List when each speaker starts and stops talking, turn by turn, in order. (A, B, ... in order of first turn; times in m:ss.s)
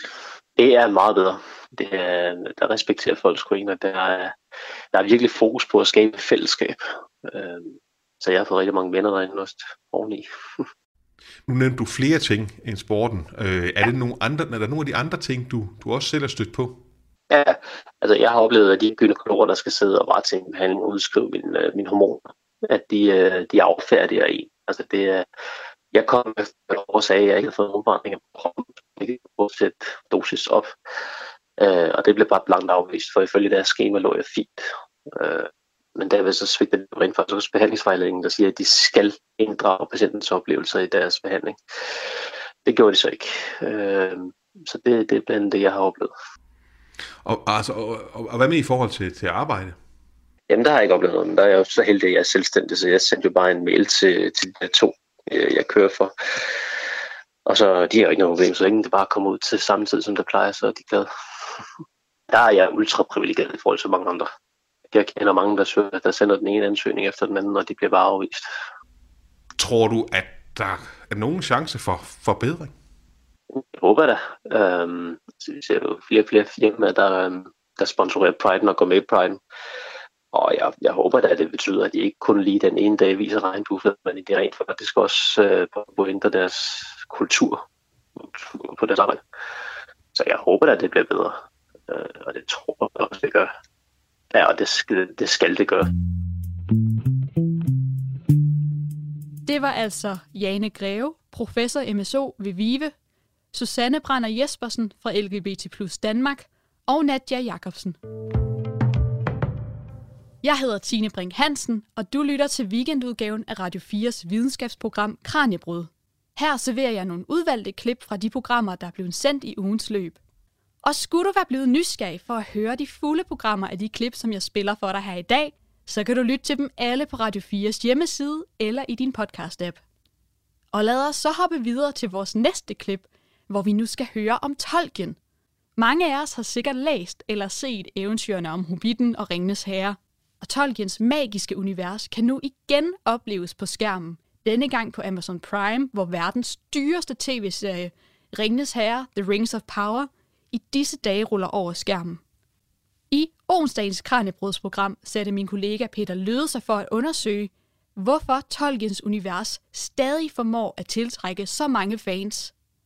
0:00.6-0:04.3 A
0:04.9-0:10.7 A
0:11.5-0:16.8 B
0:17.3-0:25.3 A
0:25.9-0:30.7 A
0:31.6-0:46.1 A
0:47.2-0:49.8 B
0:50.5-0:56.7 A
0:57.5-1:01.1 A
1:02.3-1:04.3 A
1:04.9-1:08.5 A
1:09.6-1:12.7 B
1:13.5-1:19.4 A
1:20.3-1:27.6 A
1:28.2-1:29.2 A
1:30.1-1:33.5 A
1:34.3-1:35.9 A
1:39.5-1:42.9 C
1:43.5-1:48.0 C
1:50.4-2:00.2 C
2:00.8-2:09.8 C
2:10.7-2:15.2 C
2:15.8-2:32.2 C
2:33.1-2:42.5 C